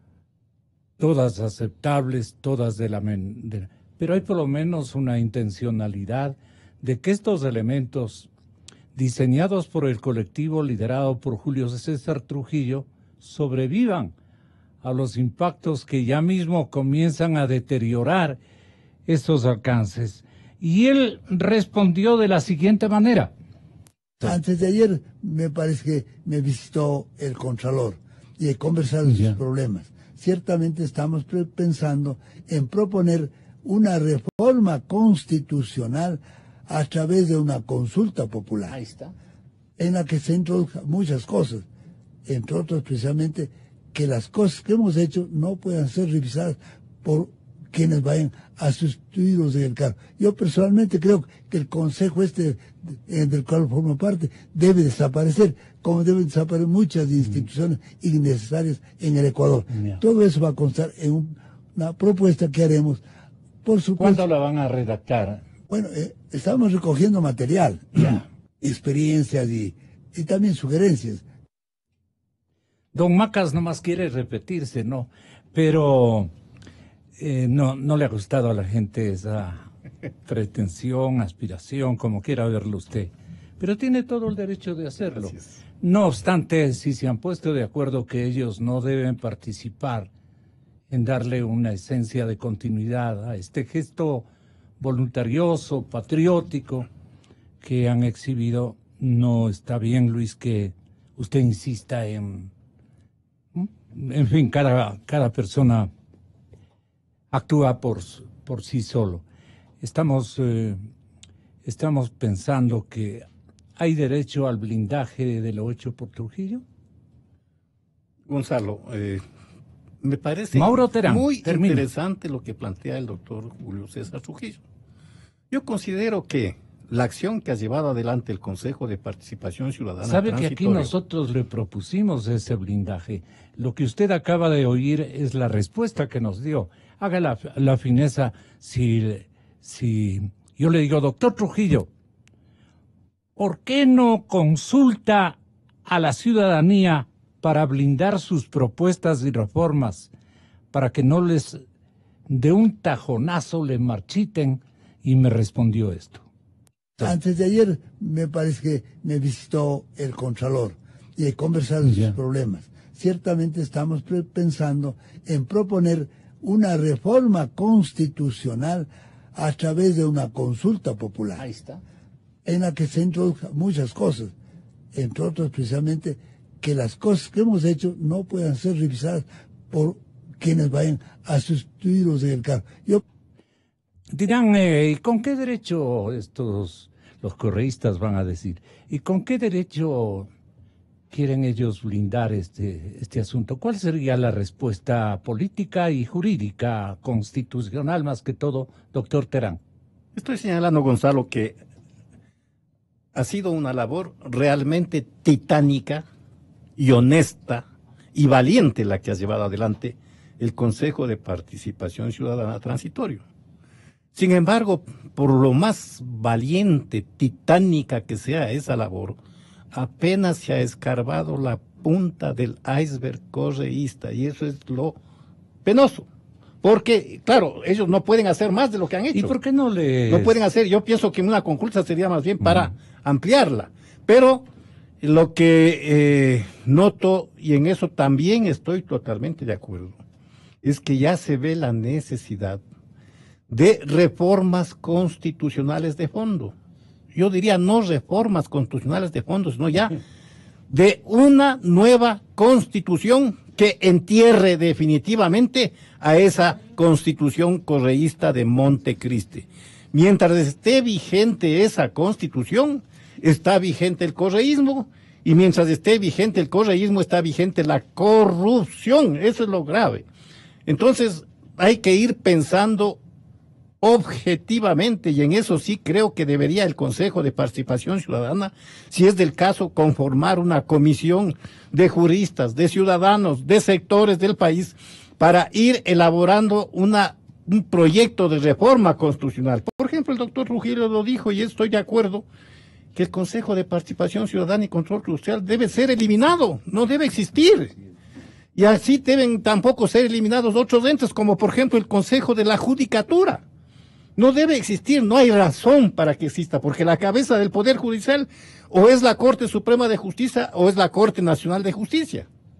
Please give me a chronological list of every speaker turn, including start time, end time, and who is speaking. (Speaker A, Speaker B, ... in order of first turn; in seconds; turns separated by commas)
Speaker A: 1.0-8.3, Speaker A: 8.9-14.1, Speaker A: 14.8-18.4, Speaker A: 19.1-23.3, Speaker B: 24.2-38.8, Speaker A: 38.7-39.1, Speaker B: 39.8-41.7, Speaker B: 42.2-63.0, Speaker A: 59.7-60.0, Speaker B: 63.6-64.2, Speaker A: 64.0-65.4, Speaker B: 65.7-71.2, Speaker A: 72.9-76.3, Speaker A: 77.2-79.7, Speaker A: 80.2-90.1, Speaker A: 90.9-94.3, Speaker A: 94.8-96.9, Speaker A: 97.6-102.5, Speaker A: 103.5-105.9, Speaker A: 107.3-109.2, Speaker A: 109.8-110.8, Speaker A: 111.6-113.2, Speaker A: 113.8-116.6, Speaker C: 118.3-119.2, Speaker C: 120.0-124.6, Speaker A: 120.5-121.8, Speaker C: 125.5-130.9, Speaker A: 130.0-141.9, Speaker A: 143.3-150.1, Speaker A: 150.7-151.6, Speaker A: 152.3-156.2, Speaker B: 157.0-171.5, Speaker A: 161.9-162.1, Speaker A: 171.4-171.8, Speaker B: 172.4-174.3, Speaker B: 174.9-183.0, Speaker A: 184.1-190.3, Speaker A: 191.1-199.6, Speaker C: 200.1-201.6, Speaker C: 203.1-206.0, Speaker C: 206.8-213.2, Speaker C: 214.1-219.2, Speaker C: 219.7-225.0, Speaker C: 225.6-226.1, Speaker C: 226.6-229.3, Speaker A: 229.1-230.4, Speaker C: 230.1-234.4, Speaker C: 235.0-239.9, Speaker C: 240.6-242.6, Speaker C: 243.5-246.5, Speaker C: 247.1-250.0, Speaker C: 250.7-270.1, Speaker C: 270.6-273.0, Speaker C: 273.8-292.2, Speaker C: 292.9-297.7, Speaker C: 298.5-303.4, Speaker C: 304.1-312.3